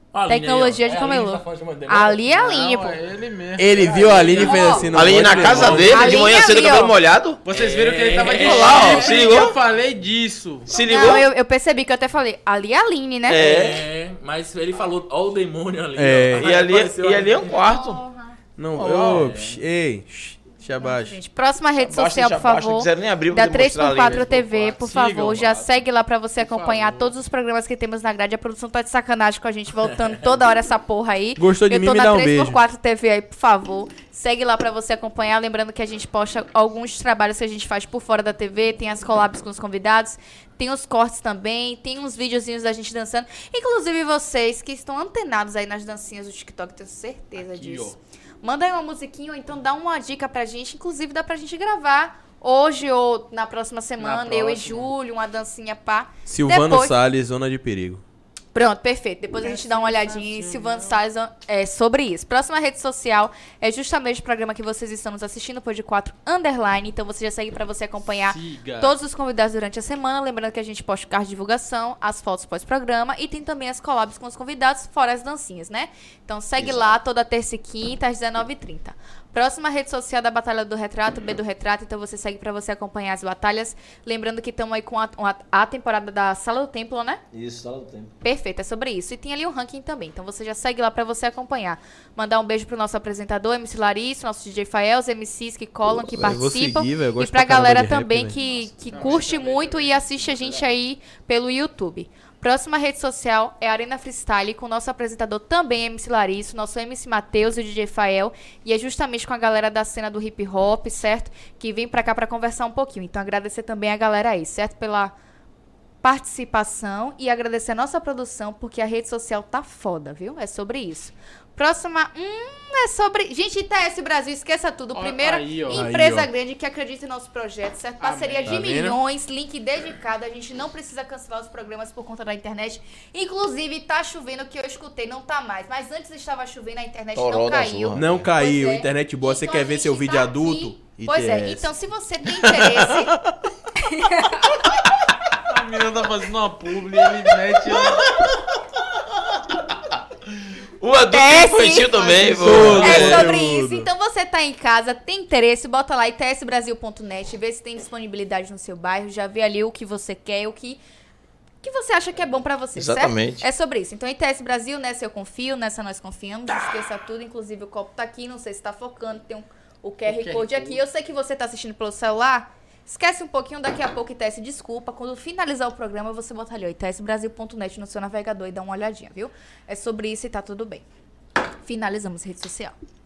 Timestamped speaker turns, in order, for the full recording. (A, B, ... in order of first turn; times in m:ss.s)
0:00.1-0:02.3 A
0:00.3-0:03.0 B
0:02.3-0:05.7 C
0:03.6-0:06.1 D
0:04.1-0:06.1 A
0:04.3-0:04.9 B
0:04.9-0:07.4 E
0:05.8-0:06.9 B
0:07.4-0:10.7 C
0:07.5-0:09.3 A
0:08.3-0:09.6 E
0:10.7-0:11.3 E
0:10.8-0:13.5 B
0:13.3-0:13.9 E
0:13.3-0:17.5 A
0:16.0-0:16.5 D
0:16.4-0:18.0 E
0:17.5-0:18.4 B
0:18.6-0:21.2 D
0:18.8-0:19.3 C
0:19.0-0:19.6 A
0:20.8-0:57.0 B
0:21.8-0:24.3 E
0:24.0-0:25.2 A
0:24.8-0:25.6 C
0:26.4-0:27.1 C
0:31.4-0:32.6 D
0:47.4-0:48.0 C
0:54.0-0:54.9 C
0:56.2-0:58.0 D
0:58.5-1:27.2 B
0:59.4-1:00.9 C
1:08.2-1:08.9 C
1:16.6-1:16.9 E
1:27.3-1:28.1 E
1:28.2-1:55.2 B
1:36.1-1:38.4 D
1:38.4-1:40.7 C
1:56.0-2:23.2 B
2:04.9-2:05.9 C
2:05.7-2:06.3 D
2:08.0-2:08.6 C
2:08.5-2:09.0 D
2:17.1-2:18.2 E
2:17.9-2:21.7 D
2:22.3-2:23.1 D
2:23.8-2:24.6 B
2:25.5-2:28.1 C
2:30.8-2:33.3 E
2:31.1-2:40.8 B
2:32.2-2:33.9 D
2:41.6-3:00.8 B
2:42.8-2:43.4 E
2:50.0-2:50.8 C
3:01.6-3:02.8 B